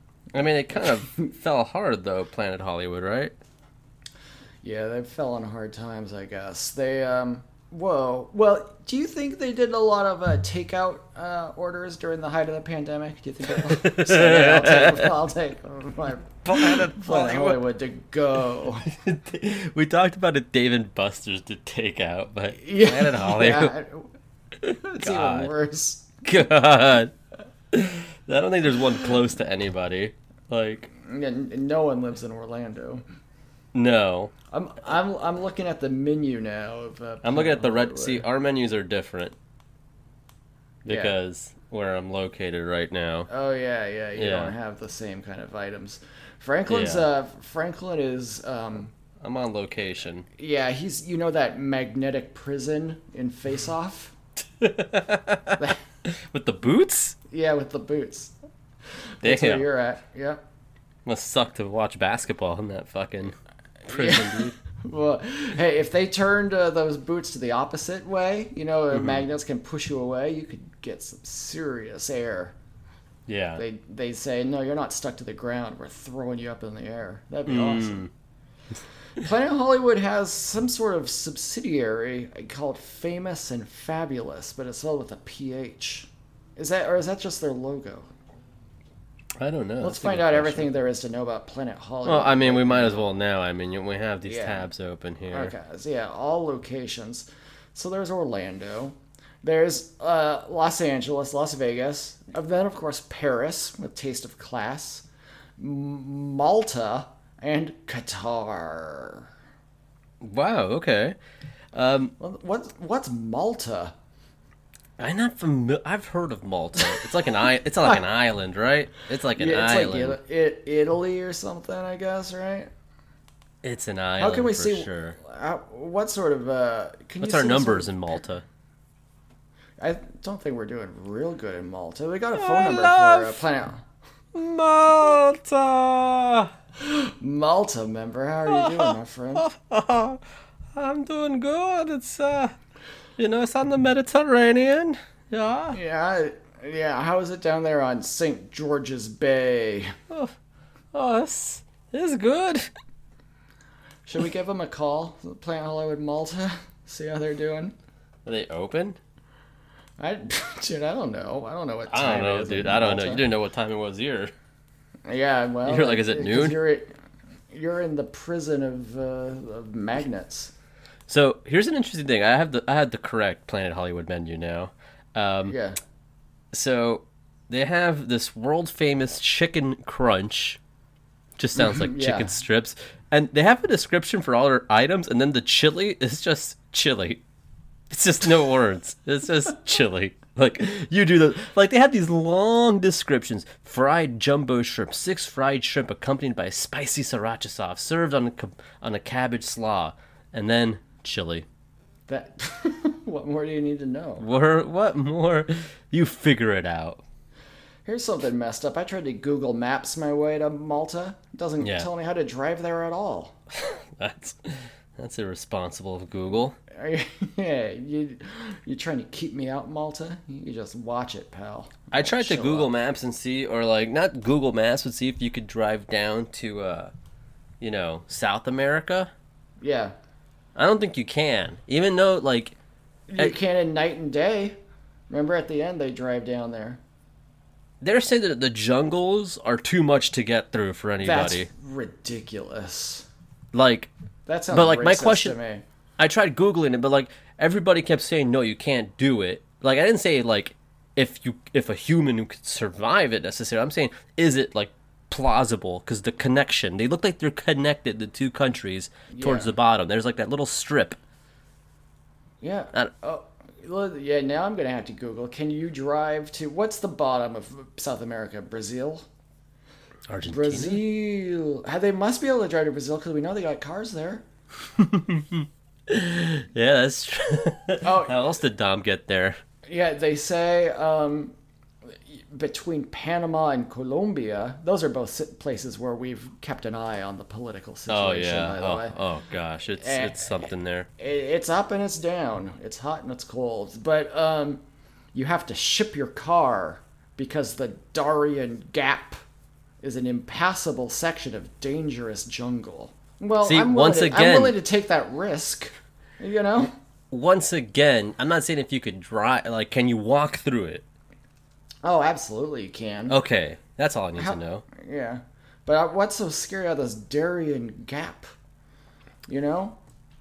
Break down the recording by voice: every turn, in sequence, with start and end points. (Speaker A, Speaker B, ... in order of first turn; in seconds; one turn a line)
Speaker A: 0.3-3.4
Speaker B: 0.8-1.3
Speaker B: 4.6-18.9
Speaker A: 13.5-15.2
Speaker A: 16.4-17.6
Speaker A: 18.9-23.7
Speaker B: 22.6-24.1
Speaker B: 24.6-26.1
Speaker A: 24.7-25.5
Speaker A: 26.2-27.1
Speaker A: 27.7-30.9
Speaker B: 31.0-33.0
Speaker A: 33.7-34.3
Speaker B: 34.5-38.3
Speaker A: 37.2-39.4
Speaker A: 40.9-43.3
Speaker B: 40.9-41.1
Speaker B: 43.3-48.9
Speaker A: 44.1-44.5
Speaker A: 46.7-47.1
Speaker A: 49.2-50.3
Speaker B: 50.4-54.1
Speaker A: 54.6-57.2
Speaker B: 57.3-58.3
Speaker B: 59.2-60.4
Speaker A: 59.2-59.7
Speaker A: 61.1-63.4
Speaker A: 63.9-64.5
Speaker B: 63.9-72.5
Speaker A: 68.9-69.2
Speaker A: 73.3-73.6
Speaker B: 73.6-78.1
Speaker A: 77.5-78.1
Speaker B: 79.2-88.1
Speaker A: 89.4-90.7
Speaker B: 89.8-93.1
Speaker A: 92.0-95.5
Speaker B: 94.2-94.7
Speaker B: 95.3-105.1
Speaker B: 105.6-109.3
Speaker A: 110.2-111.2
Speaker A: 111.7-112.1
Speaker B: 112.2-113.9
Speaker A: 115.0-120.2
Speaker B: 119.3-122.7
Speaker A: 123.6-125.2
Speaker B: 124.2-128.1
Speaker A: 127.2-128.4
Speaker B: 129.8-133.8
Speaker A: 132.3-133.4
Speaker A: 134.3-136.5
Speaker B: 136.8-139.5
Speaker A: 138.5-140.2
Speaker A: 140.7-142.6
Speaker A: 143.2-145.8
Speaker B: 145.7-149.9
Speaker A: 150.9-152.7
Speaker B: 154.1-157.7
Speaker A: 158.3-159.0
Speaker B: 160.0-163.3
Speaker A: 161.9-164.3
Speaker B: 165.1-166.9
Speaker A: 165.7-166.6
Speaker B: 167.5-170.5
Speaker A: 171.1-175.6
Speaker B: 175.5-175.8
Speaker A: 176.5-180.6
Speaker A: 181.4-187.2
Speaker B: 181.6-182.4
Speaker A: 187.9-201.5
Speaker B: 202.1-204.3
Speaker A: 204.2-207.0
Speaker B: 207.8-213.4
Speaker A: 211.6-211.9
Speaker A: 213.6-216.6
Speaker B: 216.7-222.7
Speaker A: 221.9-226.9
Speaker A: 227.6-229.1
Speaker B: 229.6-229.9
Speaker A: 230.6-232.6
Speaker B: 233.1-234.6
Speaker B: 235.1-236.8
Speaker A: 237.8-241.5
Speaker B: 241.0-243.1
Speaker A: 243.5-243.9
Speaker B: 244.3-245.6
Speaker A: 244.5-245.4
Speaker A: 246.0-261.0
Speaker B: 259.1-259.5
Speaker B: 262.4-269.1
Speaker A: 270.1-270.8
Speaker B: 270.2-274.2
Speaker A: 274.8-279.4
Speaker B: 277.8-278.3
Speaker B: 279.7-281.3
Speaker B: 282.1-288.9
Speaker A: 287.9-290.9
Speaker B: 289.8-294.6
Speaker B: 295.1-299.2
Speaker B: 299.8-306.7
Speaker A: 303.4-304.6
Speaker A: 307.1-310.9
Speaker B: 311.8-313.2
Speaker A: 313.1-314.6
Speaker B: 314.2-318.3
Speaker B: 319.3-319.8